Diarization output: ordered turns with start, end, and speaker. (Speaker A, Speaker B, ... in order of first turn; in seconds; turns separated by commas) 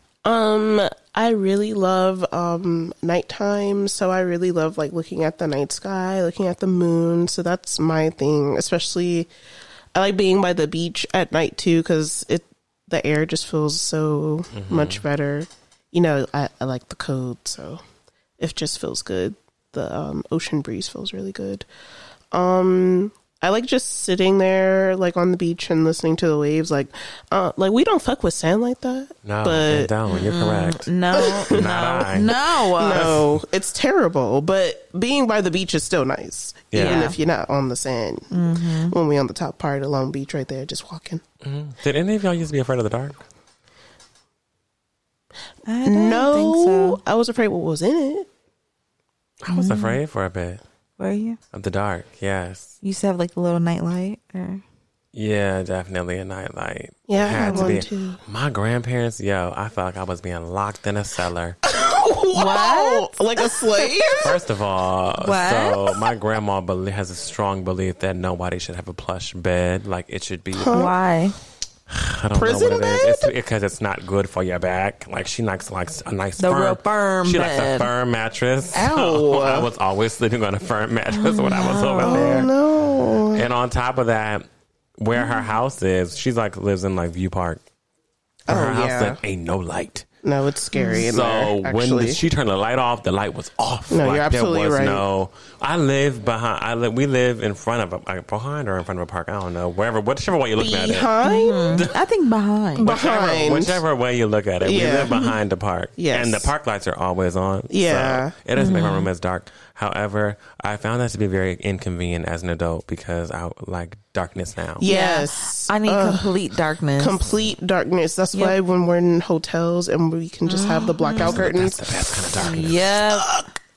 Speaker A: 0.2-9.3, Speaker A: 9.9-17.8, Speaker B: 14.5-15.0, Speaker A: 18.4-21.7, Speaker A: 22.3-29.9, Speaker B: 29.2-30.9, Speaker C: 30.1-33.1, Speaker A: 31.1-31.7, Speaker B: 31.5-33.3, Speaker A: 32.7-41.2, Speaker B: 36.7-37.1, Speaker C: 36.8-37.2, Speaker C: 38.3-39.0, Speaker B: 41.4-43.2, Speaker C: 45.7-47.0, Speaker A: 45.9-48.3, Speaker B: 49.4-50.6, Speaker C: 49.5-50.0, Speaker C: 51.0-51.4, Speaker B: 51.5-52.8, Speaker C: 52.8-54.6, Speaker B: 55.1-61.6, Speaker A: 57.1-58.2, Speaker C: 57.3-57.8, Speaker A: 61.6-64.4, Speaker C: 62.3-64.2, Speaker B: 64.2-70.9, Speaker C: 65.2-65.8, Speaker A: 70.5-70.9, Speaker C: 70.7-71.3, Speaker B: 71.9-82.5, Speaker A: 72.3-73.3, Speaker C: 76.4-77.9, Speaker A: 78.7-79.7, Speaker C: 81.1-82.5, Speaker A: 82.0-83.5, Speaker B: 83.3-84.5, Speaker B: 85.0-87.6, Speaker C: 85.1-85.5, Speaker A: 88.5-89.2, Speaker B: 88.5-90.1, Speaker A: 90.2-92.2, Speaker C: 90.7-91.0, Speaker B: 91.0-101.1, Speaker A: 93.9-95.0, Speaker A: 100.6-101.9, Speaker C: 101.2-102.9, Speaker A: 102.8-103.8, Speaker B: 102.8-114.9, Speaker A: 104.6-105.1, Speaker A: 106.0-106.5, Speaker A: 107.7-108.3, Speaker C: 108.6-109.1, Speaker A: 114.8-116.4, Speaker C: 114.8-117.2, Speaker A: 117.0-122.6, Speaker C: 120.5-121.4, Speaker B: 121.2-122.9, Speaker C: 122.3-123.4, Speaker A: 123.2-123.5